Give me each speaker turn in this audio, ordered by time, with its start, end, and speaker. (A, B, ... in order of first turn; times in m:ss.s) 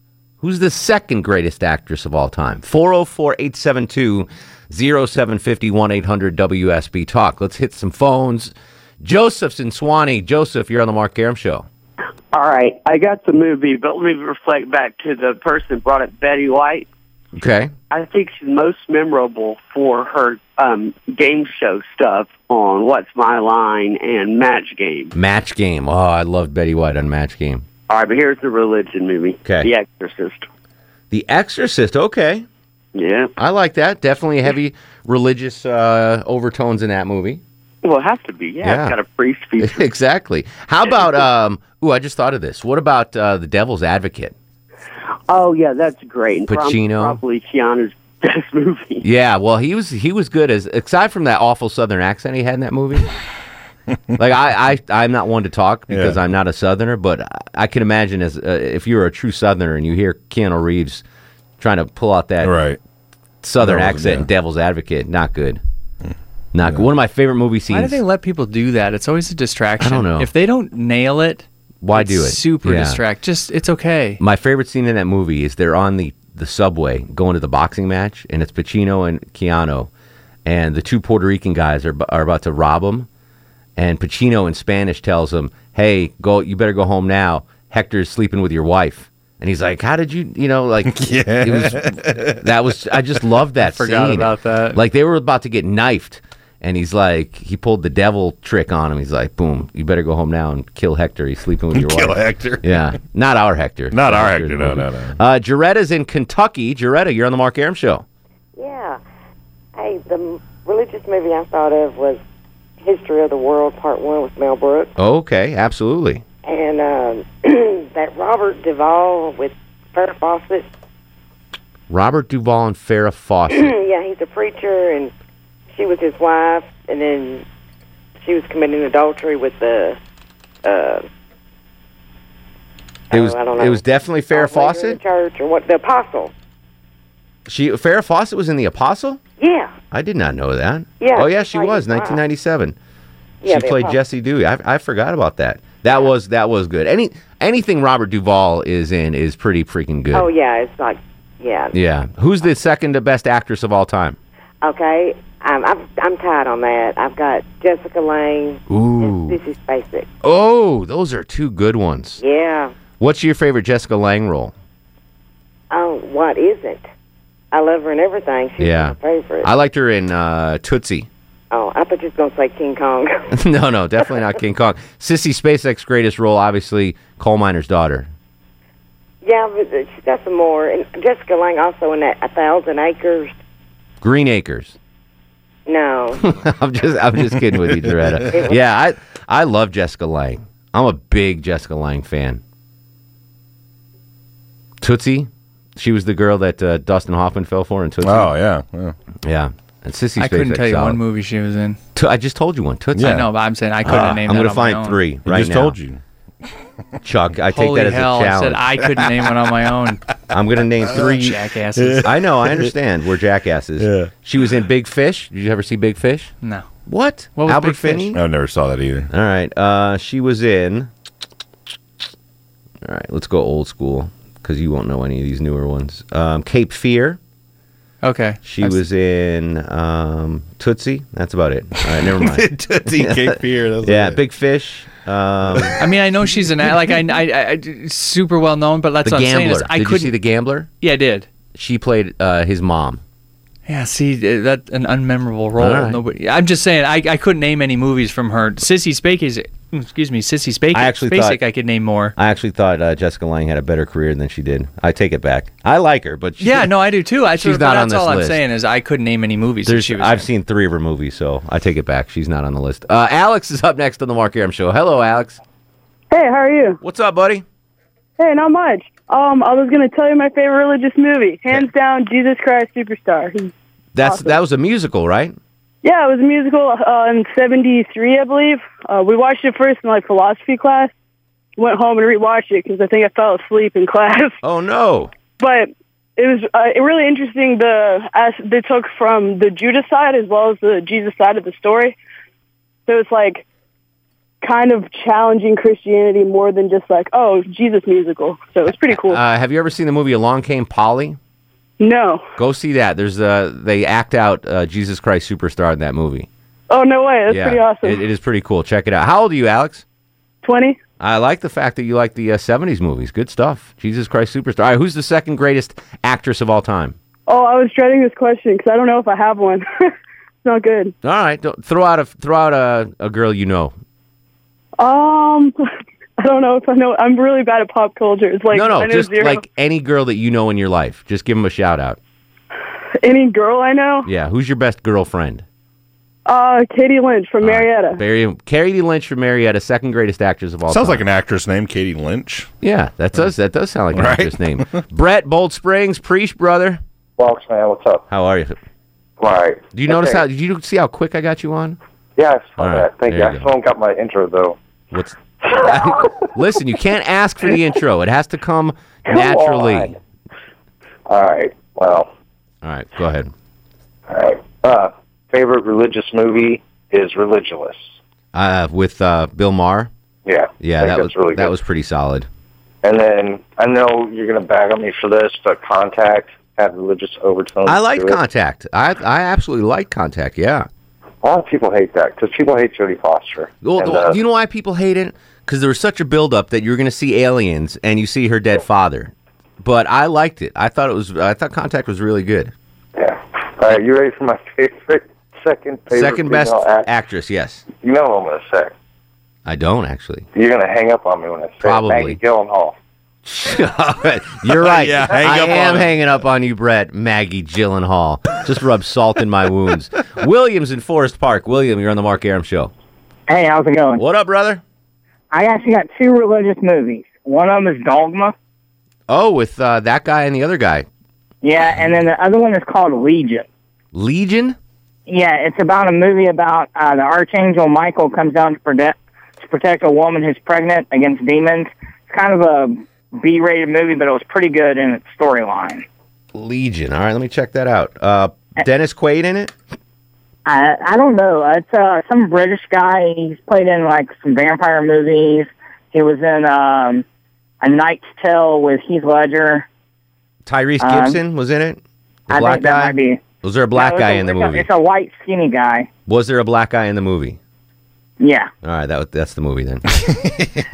0:00.4-0:11.7 A
0:12.3-0:16.9 B
0:17.4-0:17.7 A
0:17.9-0:25.2 B
0:25.1-0:27.6 A
0:27.9-0:30.5 B
0:31.1-0:32.5 A
0:33.0-0:33.3 B
0:33.4-0:37.4 A
0:37.8-0:39.8 B
0:38.6-0:39.0 A
0:39.6-0:44.4 A
0:45.3-0:49.0 B
0:46.5-0:47.2 A
0:49.0-0:53.1 A
0:54.2-1:01.0 A
0:55.9-0:56.2 C
1:01.6-1:02.6 A
1:02.4-1:02.8 C
1:03.4-1:05.6 A
1:03.6-1:04.3 C
1:06.5-1:08.0 A
1:07.7-1:14.2 D
1:09.8-1:10.3 A
1:11.8-1:13.0 A
1:14.2-1:19.9 A
1:20.5-1:23.1 A
1:23.8-1:48.0 A
1:30.9-1:32.4 C
1:33.6-1:34.8 D
1:41.7-1:42.8 C
1:43.9-1:45.2 C
1:48.6-1:49.0 E
1:49.8-1:52.2 E
1:52.8-1:54.9 E
1:55.0-1:56.2 A
1:56.4-2:00.7 E
2:01.9-2:03.8 A
2:03.5-2:05.1 E
2:05.7-2:07.4 E
2:08.2-2:10.0 E
2:10.6-2:11.0 E
2:13.1-2:16.3 E
2:13.1-2:15.0 A
2:17.5-2:19.2 A
2:19.4-2:19.7 E
2:19.9-2:22.8 A
2:21.0-2:22.2 E
2:23.4-2:24.0 E
2:23.5-2:30.3 A
2:30.1-2:31.8 E
2:31.7-2:34.2 A
2:34.6-2:40.1 E
2:38.7-2:39.4 A
2:40.2-2:42.2 A
2:42.2-2:42.7 E
2:43.0-2:44.5 A
2:45.7-2:46.9 E
2:47.5-2:49.5 E
2:48.6-2:51.1 A
2:51.5-2:53.3 E
2:53.3-2:58.1 A
2:59.2-3:03.3 E
3:04.0-3:04.8 A
3:05.7-3:06.3 E
3:06.2-3:12.4 A
3:07.4-3:08.2 C
3:08.3-3:08.6 E
3:14.8-3:18.4 A
3:18.0-3:19.0 C
3:19.2-3:21.0 A
3:20.2-3:21.8 D
3:22.0-3:23.3 A
3:23.0-3:23.2 C
3:23.0-3:25.0 D
3:23.8-3:25.8 A
3:25.3-3:26.0 C
3:27.0-3:28.6 A
3:27.5-3:30.0 D
3:30.3-3:31.4 A
3:31.0-3:32.1 D
3:31.8-3:32.7 C
3:32.0-3:36.3 A
3:33.8-3:34.1 C
3:36.9-3:38.2 A
3:37.4-3:38.1 D
3:38.1-3:39.1 C
3:39.1-3:40.9 A
3:42.8-3:47.2 A
3:48.0-3:48.7 D
3:48.4-3:55.8 A
3:51.8-3:54.2 C
3:55.8-4:00.2 D
3:59.0-4:00.7 A
4:00.8-4:01.3 D
4:01.6-4:03.0 A
4:03.7-4:12.2 D
4:05.6-4:06.0 A
4:10.7-4:11.4 A
4:12.2-4:16.7 A
4:16.4-4:20.3 D
4:17.4-4:18.4 A
4:19.7-4:25.4 A
4:26.1-4:26.8 F
4:26.8-4:27.4 A
4:28.2-4:34.4 F
4:34.0-4:35.4 A
4:35.8-4:40.9 F
4:41.6-4:44.4 F
4:44.4-4:45.1 A
4:45.4-4:52.0 F
4:52.9-4:53.4 F
4:54.4-4:59.2 F
4:58.9-5:01.2 A
5:01.8-5:02.2 F
5:02.4-5:06.3 A
5:06.7-5:08.0 F
5:07.3-5:09.8 A
5:10.4-5:10.8 F
5:11.0-5:17.0 A
5:17.3-5:19.6 F
5:20.4-5:20.9 F
5:21.0-5:23.8 A
5:24.8-5:25.6 F
5:26.2-5:29.4 F
5:28.5-5:32.0 A
5:33.0-5:34.1 F
5:34.0-5:35.4 A
5:36.3-5:38.0 F
5:37.4-5:41.1 A
5:40.7-5:42.5 C
5:42.6-5:46.8 A
5:43.9-5:44.8 C
5:47.2-5:48.1 G
5:48.1-5:48.6 A
5:49.2-5:50.2 G
5:49.7-5:51.8 A
5:52.2-5:54.6 G
5:52.6-5:53.5 A
5:54.9-6:00.0 A
5:55.5-5:56.1 G
5:59.1-5:59.9 G
6:01.1-6:02.1 G
6:02.6-6:03.3 A
6:04.1-6:07.9 G
6:08.3-6:09.9 A
6:10.3-6:11.5 G
6:10.6-6:12.3 A
6:12.8-6:18.2 G
6:17.6-6:20.7 A
6:21.2-6:24.2 G
6:23.6-6:32.5 A
6:33.0-6:36.9 G
6:35.9-6:37.6 A
6:37.8-6:38.7 G
6:39.5-6:40.3 A
6:40.4-6:42.7 G
6:41.6-6:42.2 A
6:43.2-6:52.7 A
6:44.4-6:46.1 C
6:53.3-6:54.0 H
6:54.0-6:54.6 A
6:55.3-6:58.4 H
6:59.1-7:00.9 A
7:01.4-7:03.5 H
7:03.9-7:04.6 A
7:05.1-7:15.8 H
7:16.4-7:19.5 A
7:20.5-7:27.0 H
7:27.6-7:29.7 H
7:30.5-7:34.7 A
7:30.8-7:31.2 H
7:32.3-7:33.2 H
7:33.7-7:35.9 H
7:36.1-7:37.4 A
7:38.2-7:38.5 H
7:38.6-7:39.9 A
7:40.1-7:40.6 C